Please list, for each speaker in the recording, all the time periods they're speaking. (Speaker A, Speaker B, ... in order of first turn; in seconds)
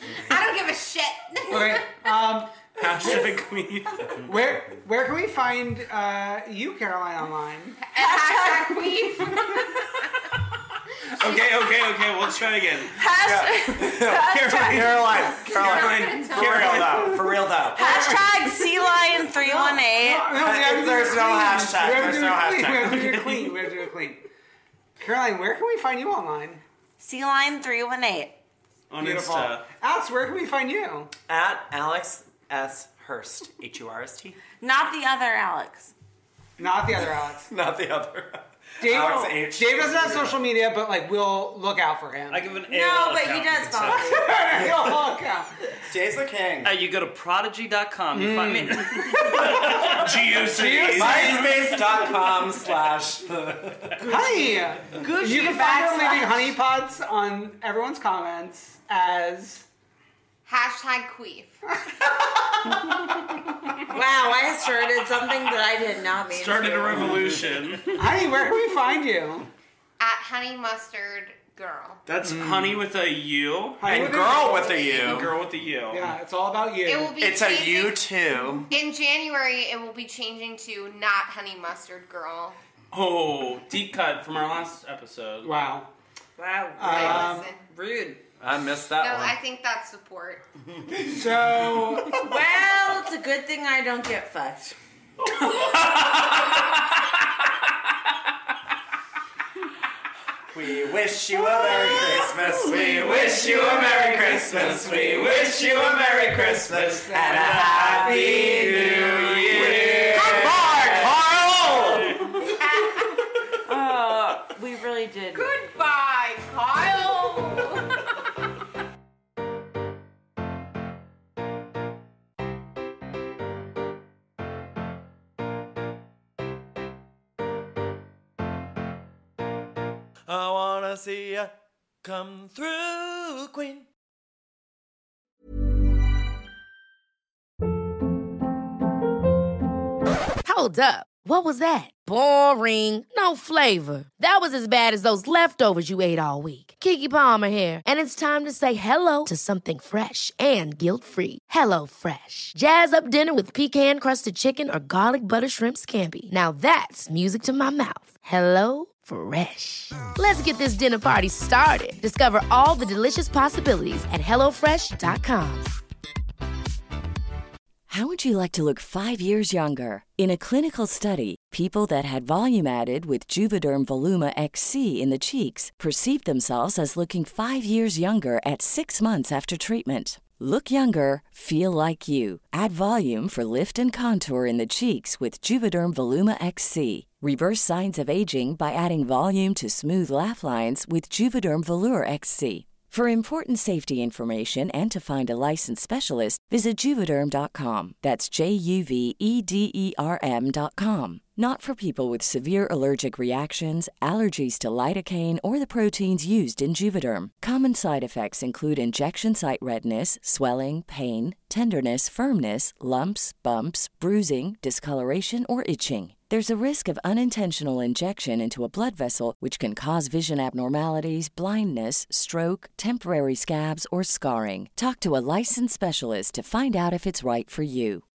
Speaker A: 0.1-1.9, 7.8-9.6, 15.3-17.1, 60.5-61.6, 70.0-72.0, 76.9-78.1, 78.7-82.6, 86.8-87.6, 89.0-90.4, 112.6-113.3, 115.3-117.8
Speaker B: 1.5-3.3, 4.2-7.8, 16.5-18.6, 19.4-24.2, 25.0-26.6, 29.0-31.1, 36.6-37.5, 38.8-42.6, 44.1-45.5, 48.1-51.6, 54.0-59.7, 68.0-69.5, 72.2-72.8, 73.8-75.1, 75.9-77.2, 85.4-85.9, 86.8-87.5, 90.9-92.3, 106.8-108.4
Speaker C: 2.8-4.3, 11.2-13.0, 14.5-15.0, 15.5-17.1, 22.9-23.6, 28.9-29.6, 49.6-51.7, 66.3-68.0, 72.1-73.8, 74.9-76.1, 82.9-85.5, 95.4-96.7, 108.9-110.9
Speaker D: 8.0-9.9, 11.2-11.6, 12.9-15.3, 17.7-20.3, 27.0-28.4, 34.6-35.9, 42.6-44.3, 55.2-56.5, 63.9-67.2, 86.4-88.2, 92.1-94.8, 101.3-104.3, 107.5-109.2, 113.7-115.5, 117.0-117.7
Speaker E: 13.2-18.0, 20.3-23.1, 31.3-34.4, 37.5-40.4, 45.9-46.8, 50.9-54.0, 73.8-75.3, 77.2-78.7, 88.4-89.4, 100.5-112.5, 130.3-131.5, 132.0-133.8
Speaker F: 42.3-44.2, 46.6-50.1, 54.1-56.0, 107.3-108.1
Speaker G: 140.4-165.7
Speaker H: 167.9-228.0